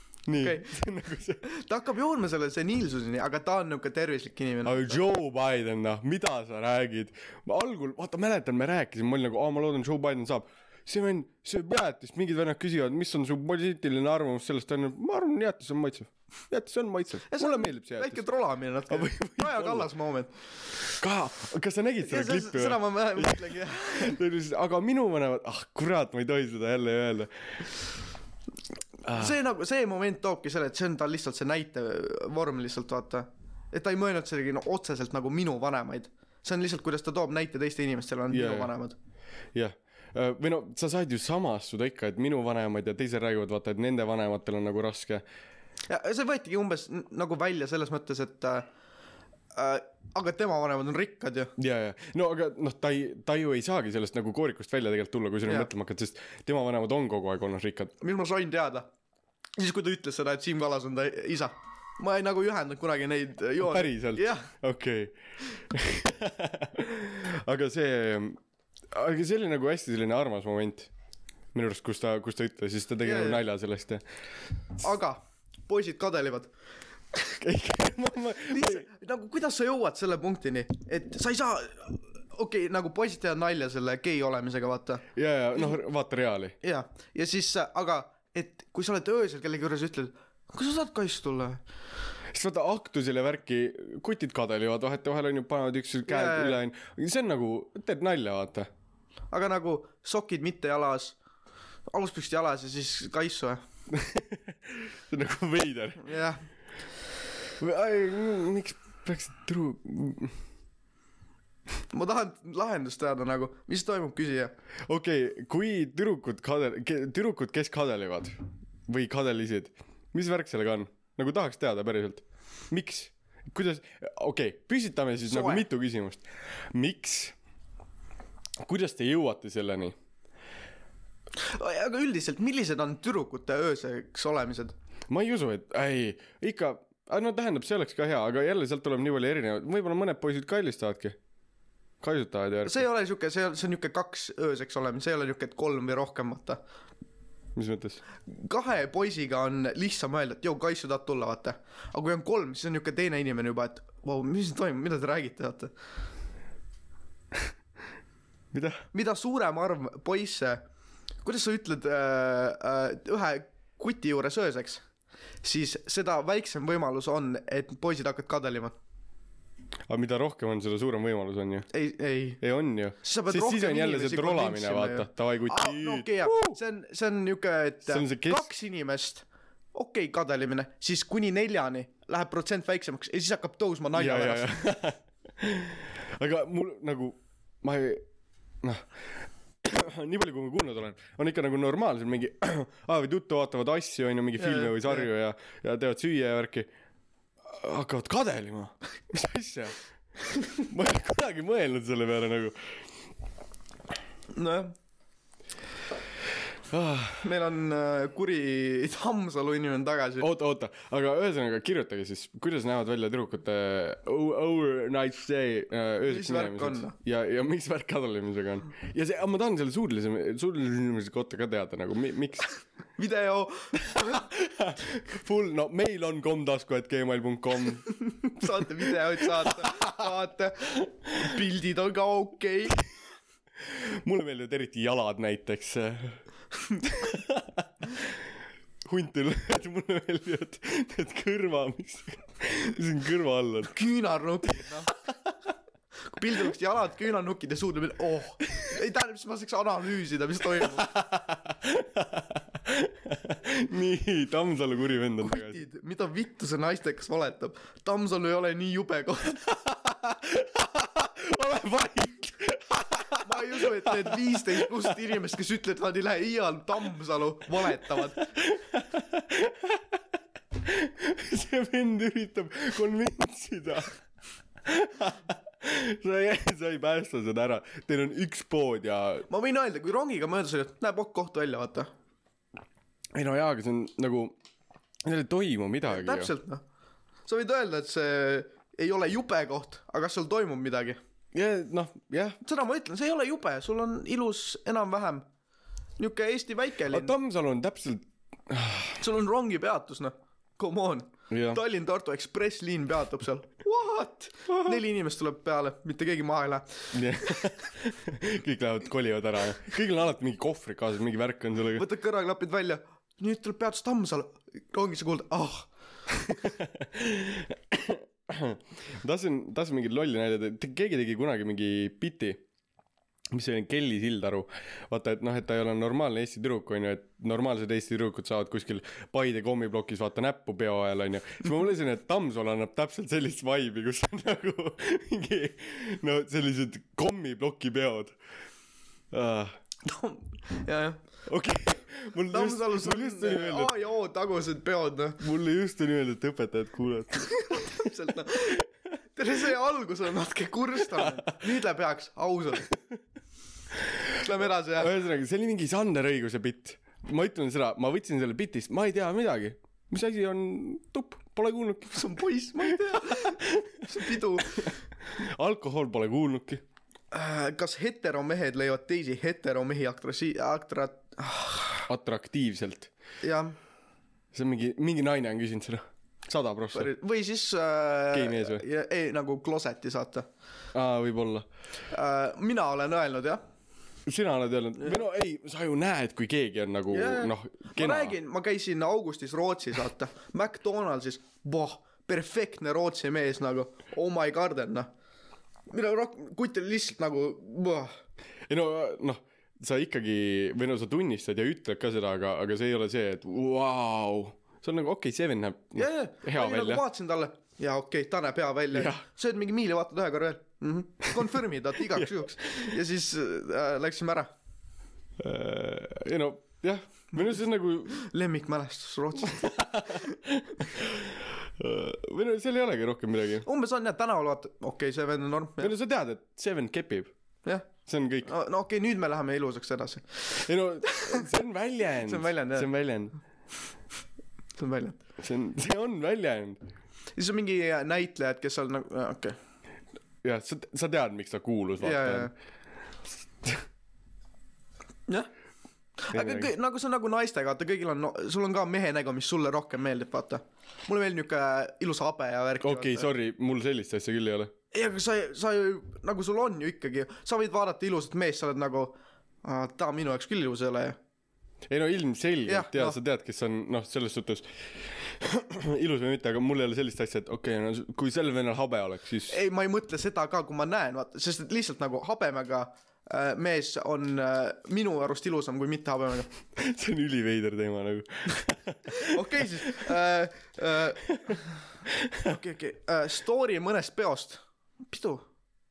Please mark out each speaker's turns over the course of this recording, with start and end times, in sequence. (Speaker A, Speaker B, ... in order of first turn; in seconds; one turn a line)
Speaker A: 0.2-1.4
Speaker B: 0.4-0.7
Speaker B: 1.4-5.0
Speaker A: 4.6-18.2
Speaker B: 17.3-20.3
Speaker A: 18.9-19.9
Speaker A: 21.0-27.6
Speaker B: 22.0-24.2
Speaker A: 29.0-29.3
Speaker B: 29.1-39.0
Speaker A: 38.3-38.7
Speaker A: 39.5-45.2
Speaker B: 45.9-48.7
Speaker B: 49.5-51.5
Speaker A: 51.6-57.9
Speaker B: 58.0-58.9
Speaker B: 59.6-64.5
Speaker A: 63.6-68.4
Speaker A: 68.9-70.9
Speaker A: 71.5-74.0
Speaker B: 73.0-73.4
Speaker B: 74.8-76.5
Speaker A: 77.4-78.8
Speaker B: 78.5-85.0
Speaker A: 85.2-86.5
Speaker B: 86.6-91.6
Speaker A: 92.3-98.7
Speaker B: 96.0-96.6
Speaker B: 99.3-101.2
Speaker B: 101.9-103.6
Speaker A: 103.9-106.1
Speaker B: 106.0-106.4
Speaker A: 107.6-110.3
Speaker B: 111.9-114.5
Speaker A: 114.9-127.3
Speaker B: 125.3-125.7
Speaker A: 128.6-129.9
Speaker B: 131.4-134.7
Speaker A: 135.1-141.2
Speaker A: 142.0-142.8
Speaker B: 142.6-146.6
Speaker A: 147.6-148.0
Speaker B: 148.2-155.7
Speaker A: 158.5-158.8
Speaker B: 158.9-160.6
Speaker B: 161.2-164.8
Speaker B: 165.4-168.7
Speaker A: 169.9-171.7
Speaker B: 171.7-172.4
Speaker A: 172.4-176.6
Speaker B: 173.0-184.6
Speaker A: 177.9-178.5
Speaker A: 183.9-188.0
Speaker A: 188.6-188.9
Speaker A: 189.6-196.7
Speaker B: 194.4-195.1
Speaker A: 197.4-199.8
Speaker A: 200.6-202.8
Speaker B: 204.3-204.7
Speaker A: 206.7-207.2
Speaker B: 207.2-210.3
Speaker A: 210.2-222.5
Speaker B: 216.1-216.9
Speaker B: 223.0-224.3
Speaker A: 223.9-230.1
Speaker B: 228.1-232.8
Speaker A: 233.6-236.2
Speaker B: 236.7-237.0
Speaker A: 236.8-238.2
Speaker A: 238.8-243.7
Speaker B: 243.7-244.9
Speaker B: 246.1-250.9
Speaker A: 250.6-255.6
Speaker B: 255.2-259.6
Speaker A: 259.6-265.0
Speaker B: 263.2-268.3
Speaker A: 267.9-270.0
Speaker A: 270.6-273.9
Speaker A: 274.6-279.3
Speaker B: 279.3-281.9
Speaker A: 283.1-284.3
Speaker A: 285.0-286.3
Speaker B: 285.9-286.6
Speaker B: 287.3-291.0
Speaker A: 291.3-292.4
Speaker B: 292.4-295.2
Speaker B: 296.0-297.1
Speaker A: 296.9-299.0
Speaker B: 299.0-307.6
Speaker A: 301.3-301.6
Speaker A: 306.9-311.8
Speaker B: 311.7-316.5
Speaker A: 316.4-322.4
Speaker A: 323.3-338.1
Speaker A: 339.1-339.5
Speaker B: 339.8-341.0
Speaker A: 341.3-343.7
Speaker B: 342.3-345.2
Speaker A: 345.2-347.9
Speaker B: 347.3-352.8
Speaker A: 350.9-351.3
Speaker B: 354.1-354.9
Speaker A: 354.8-362.1
Speaker B: 361.9-364.8
Speaker A: 362.7-364.0
Speaker A: 364.6-366.6
Speaker B: 367.1-371.9
Speaker A: 371.9-372.9
Speaker B: 373.2-373.6
Speaker A: 374.3-376.9
Speaker B: 376.7-380.2
Speaker A: 378.1-378.6
Speaker A: 380.7-381.4
Speaker B: 381.9-383.4
Speaker A: 384.1-388.1
Speaker B: 386.9-394.9
Speaker B: 395.7-397.9
Speaker A: 398.5-406.8
Speaker B: 405.8-414.3
Speaker A: 408.7-409.0
Speaker A: 411.1-412.7
Speaker A: 415.2-418.0
Speaker B: 417.9-420.2
Speaker A: 419.2-423.4
Speaker B: 423.4-425.7
Speaker A: 425.6-427.1
Speaker A: 427.9-428.3
Speaker B: 428.2-431.3
Speaker A: 430.3-433.1
Speaker B: 431.9-432.7
Speaker B: 434.6-435.0
Speaker A: 435.2-436.6
Speaker B: 437.2-439.4
Speaker A: 440.2-442.3
Speaker B: 441.8-442.3
Speaker B: 446.0-453.1
Speaker A: 446.1-446.5
Speaker A: 452.6-454.5
Speaker B: 454.7-461.0
Speaker A: 461.7-469.4
Speaker B: 462.4-463.0
Speaker B: 469.3-476.3
Speaker A: 476.5-479.9
Speaker B: 478.9-481.6
Speaker A: 481.1-481.4
Speaker A: 481.9-482.3
Speaker B: 482.2-485.2